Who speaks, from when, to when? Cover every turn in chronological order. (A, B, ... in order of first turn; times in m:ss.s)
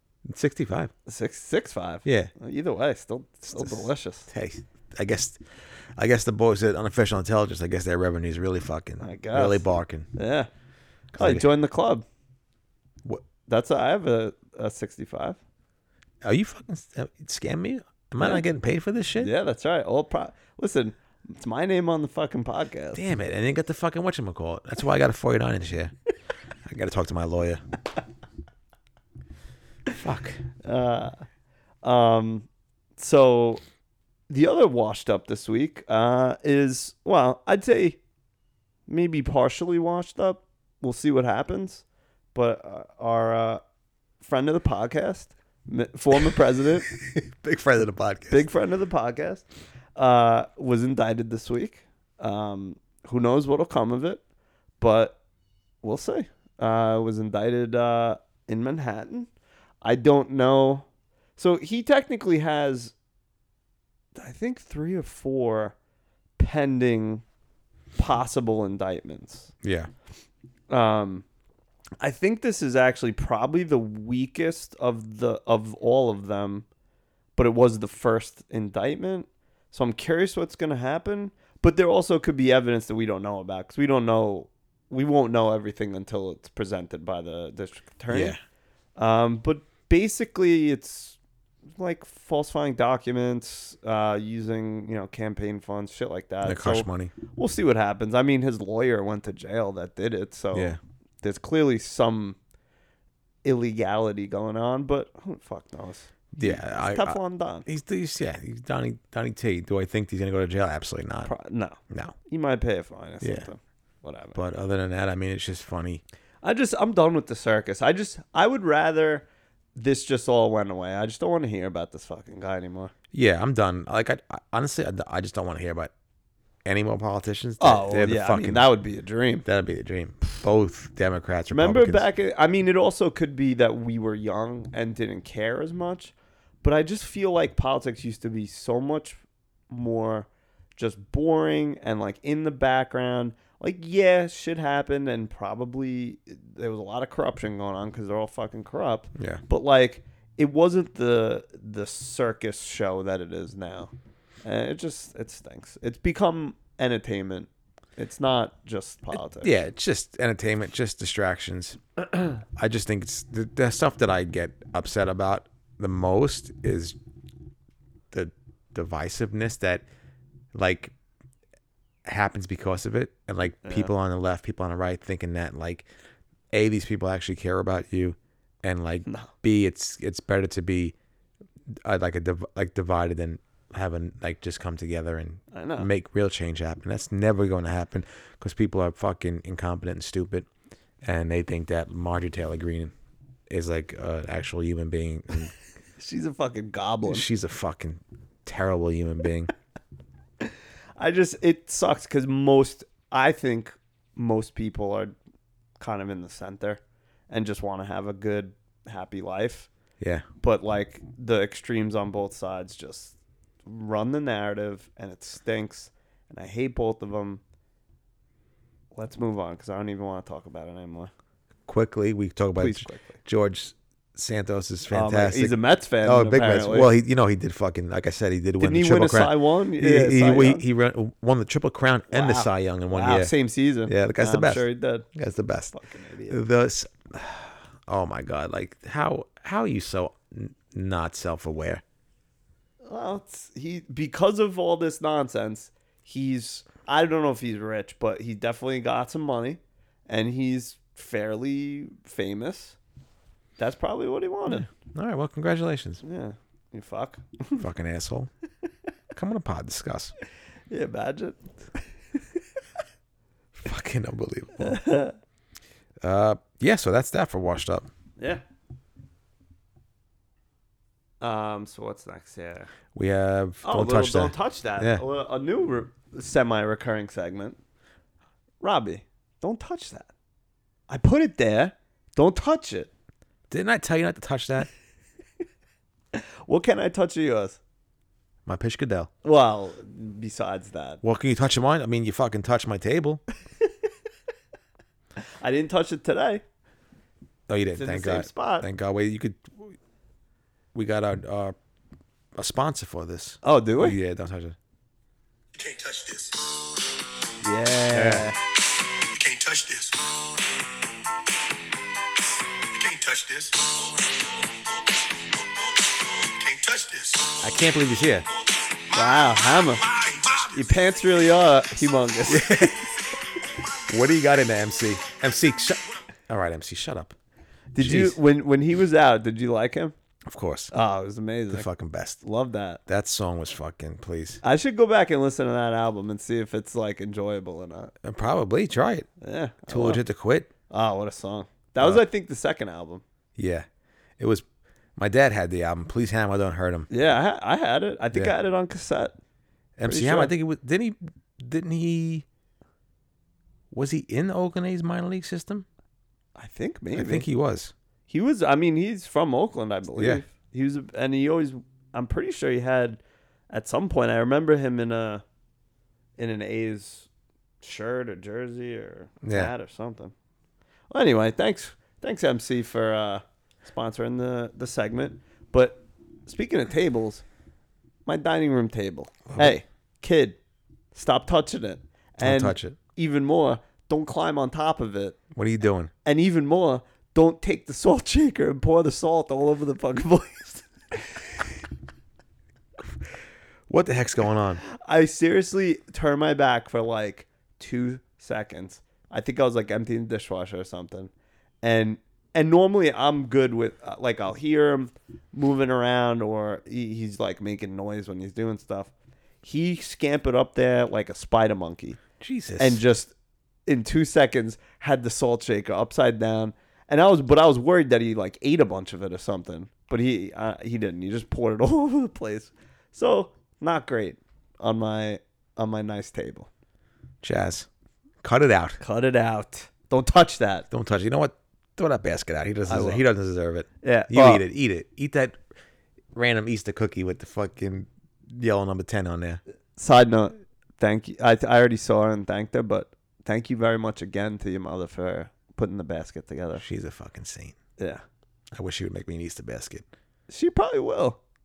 0:00.2-0:00.9 A
0:01.1-0:04.3 B
0:02.0-0:02.3 A
0:03.5-0:10.1 A
0:09.0-0:09.6 B
0:10.2-0:10.5 B
0:11.1-0:11.5 A
0:11.2-0:12.0 B
0:13.5-0:15.4 B
0:16.2-0:19.3 A
0:18.2-0:18.4 B
0:19.2-0:23.0 B
0:22.9-0:25.9 A
0:26.6-0:27.6 A
0:29.9-0:30.4 A
0:30.6-0:31.2 B
0:31.8-0:33.6 B
0:34.3-0:38.0 B
0:38.9-0:43.6 B
0:44.2-0:46.9 B
0:46.9-0:48.4 A
0:48.3-0:49.4 B
0:50.0-0:54.2 B
0:54.8-0:55.2 B
0:55.8-0:59.3 B
0:59.8-1:00.9 B
1:01.4-1:02.9 B
1:04.2-1:05.8 B
1:06.4-1:07.2 B
1:08.0-1:09.5 B
1:09.6-1:09.9 A
1:10.7-1:11.2 B
1:12.0-1:16.7 B
1:17.4-1:28.4 B
1:28.1-1:28.4 A
1:29.0-1:31.2 B
1:31.8-1:42.4 B
1:36.4-1:37.1 A
1:40.5-1:40.8 A
1:43.4-1:47.7 B
1:46.3-1:51.3 A
1:51.2-1:54.4 B
1:51.9-1:52.2 A
1:53.2-1:53.5 A
1:54.4-1:56.0 A
1:56.4-2:02.9 B
2:03.1-2:05.9 A
2:06.6-2:08.7 A
2:07.6-2:09.5 B
2:09.4-2:12.0 A
2:11.5-2:19.2 B
2:19.7-2:33.9 B
2:29.2-2:29.4 A
2:34.4-2:39.5 B
2:39.4-2:41.8 A
2:42.4-2:47.0 A
2:48.1-2:49.8 A
2:50.5-2:50.9 A
2:52.1-2:55.9 A
2:53.6-2:53.9 B
2:56.5-3:01.0 A
2:59.1-2:59.3 B
3:01.8-3:10.5 A
3:05.5-3:05.9 B
3:11.0-3:12.9 A
3:13.5-3:15.5 A
3:16.0-3:17.3 B
3:17.0-3:19.5 A
3:20.4-3:25.2 B
3:25.8-3:29.7 B
3:30.0-3:30.3 A
3:30.4-3:37.4 B
3:38.9-3:41.1 B
3:41.7-3:53.3 A
3:42.6-3:43.2 B
3:44.9-3:46.9 B
3:48.6-3:50.6 B
3:52.1-3:55.1 B
3:53.9-3:55.8 A
3:55.7-3:56.4 B
3:56.3-4:01.8 A
4:02.8-4:12.8 B
4:13.6-4:14.7 B
4:14.5-4:16.0 A
4:16.0-4:17.6 B
4:17.6-4:18.3 A
4:19.2-4:20.1 A
4:20.7-4:21.5 B
4:23.6-4:24.8 A
4:24.6-4:25.2 B
4:26.0-4:27.9 A
4:28.2-4:28.4 B
4:31.2-4:32.7 B
4:32.9-4:35.0 A
4:33.6-4:37.6 B
4:38.6-4:40.1 B
4:40.9-4:42.9 B
4:43.5-4:44.7 A
4:46.1-4:47.6 B
4:48.5-4:49.1 A
4:49.2-4:51.0 B
4:51.0-4:53.2 A
4:55.4-4:56.4 B
4:57.5-4:59.8 A
4:57.8-4:58.7 B
5:00.7-5:01.6 A
5:02.4-5:04.6 A
5:03.4-5:04.0 B
5:05.6-5:06.7 C
5:07.4-5:08.4 B
5:07.9-5:08.3 A
5:09.1-5:10.1 C
5:12.7-5:14.1 C
5:15.8-5:17.4 C
5:17.4-5:18.3 A
5:18.7-5:20.7 C
5:18.9-5:19.8 B
5:20.4-5:22.8 B
5:22.3-5:22.9 A
5:23.8-5:27.2 A
5:27.7-5:30.0 B
5:27.8-5:28.2 A
5:30.3-5:30.7 A
5:30.7-5:31.7 B
5:31.5-5:32.2 A
5:32.2-5:32.8 B
5:32.9-5:34.4 A
5:34.4-5:37.9 B
5:38.0-5:39.1 A
5:39.2-5:40.0 B
5:39.7-5:40.5 A
5:40.7-5:43.0 B
5:43.4-5:43.7 A
5:44.2-5:44.4 A
5:45.0-5:46.9 A
5:46.9-5:49.2 B
5:49.8-5:52.3 A
5:49.8-5:50.3 B
5:53.7-5:55.7 A
5:56.4-5:57.3 B
5:56.9-5:57.7 A
5:58.1-6:05.2 B
6:00.0-6:00.2 A
6:06.2-6:07.1 B
6:07.6-6:10.1 B
6:09.2-6:09.5 A
6:10.9-6:17.2 B
6:18.1-6:20.4 B
6:19.3-6:19.6 A
6:20.9-6:25.2 B
6:22.2-6:22.8 A
6:25.3-6:25.9 A
6:26.0-6:31.3 B
6:33.7-6:34.6 A
6:34.7-6:41.1 B
6:41.6-6:52.0 B
6:52.2-6:52.8 A
6:52.6-6:53.1 B
6:53.7-7:06.5 B
7:07.2-7:07.7 A
7:08.2-7:08.8 A
7:08.8-7:10.7 B
7:10.7-7:15.4 A
7:12.7-7:13.0 B
7:13.8-7:14.4 B
7:16.1-7:19.4 A
7:19.8-7:26.6 B
7:26.6-7:27.6 A
7:27.8-7:28.0 B
7:28.5-7:29.9 A
7:30.3-7:31.2 B